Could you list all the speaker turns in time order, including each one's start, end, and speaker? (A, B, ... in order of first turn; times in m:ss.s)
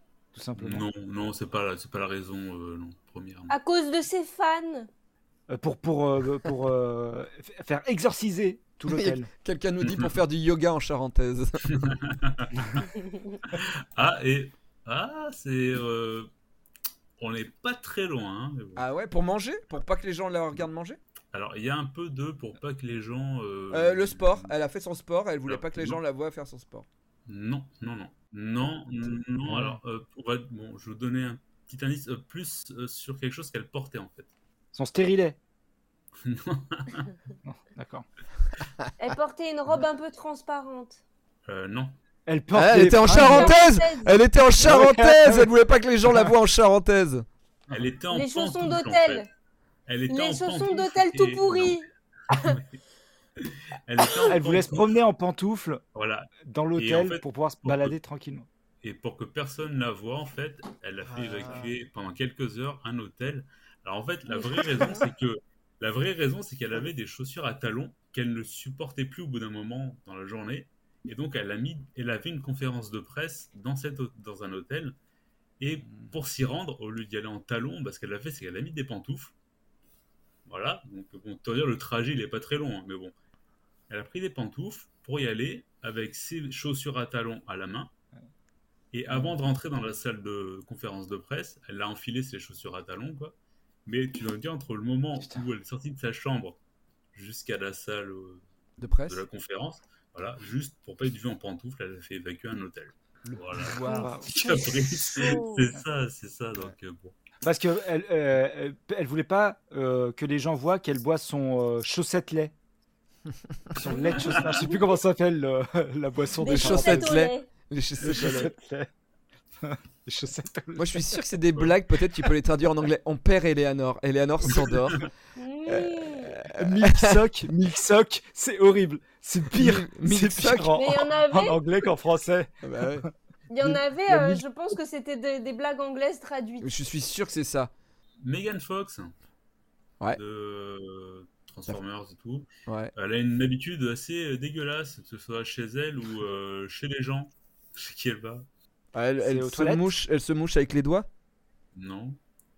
0:00.3-0:00.8 A
0:00.6-0:03.5 B
0:03.5-0:04.9 C
0:05.5-0:09.3 A
0:08.9-0:11.7 D
0:09.8-0:10.2 B
0:11.7-0:12.9 B
0:13.5-0:16.3 B
0:17.2-0:18.8 B
0:18.8-0:21.0 D
0:21.3-0:24.5 B
0:23.7-0:26.9 D
0:25.5-0:26.0 B
0:27.3-0:34.3 B
0:29.4-0:29.8 A
0:34.7-0:35.4 A
0:36.2-0:37.1 B
0:37.4-0:38.0 A
0:39.0-0:41.0 C
0:41.4-0:41.9 B
0:42.3-0:43.6 A
0:42.5-0:47.8 D
0:43.1-0:44.2 C
0:44.6-0:45.5 A
0:47.7-0:49.2 B
0:48.1-0:49.3 C
0:49.9-0:52.8 B
0:50.1-0:52.5 C
0:53.4-0:55.0 B
0:54.0-0:54.3 C
0:54.3-0:55.8 A
0:55.9-0:58.0 B
0:56.4-0:58.4 A
0:58.8-1:15.0 B
1:01.0-1:01.7 D
1:04.3-1:05.0 C
1:15.6-1:19.3 B
1:20.4-1:23.1 B
1:23.9-1:27.9 B
1:28.9-1:36.6 B
1:37.1-1:38.4 B
1:38.8-1:39.2 D
1:39.0-1:47.1 B
1:43.2-1:44.2 D
1:43.7-1:45.4 A
1:45.1-1:45.6 C
1:47.4-1:52.5 A
1:53.7-1:57.1 A
1:54.0-1:54.6 C
1:54.2-1:54.4 B
1:56.4-1:57.5 C
1:56.4-1:58.5 D
1:58.0-1:58.9 A
1:59.6-2:01.2 A
2:00.8-2:05.1 D
2:05.4-2:06.4 C
2:05.7-2:07.5 D
2:06.6-2:13.1 A
2:09.5-2:10.8 D
2:10.8-2:11.6 C
2:12.6-2:13.1 D
2:13.5-2:16.7 C
2:14.1-2:14.4 A
2:16.6-2:17.7 D
2:18.2-2:19.1 B
2:20.1-2:28.4 B
2:22.7-2:22.9 D
2:28.9-2:31.1 D
2:29.2-2:29.9 A
2:31.7-2:32.2 B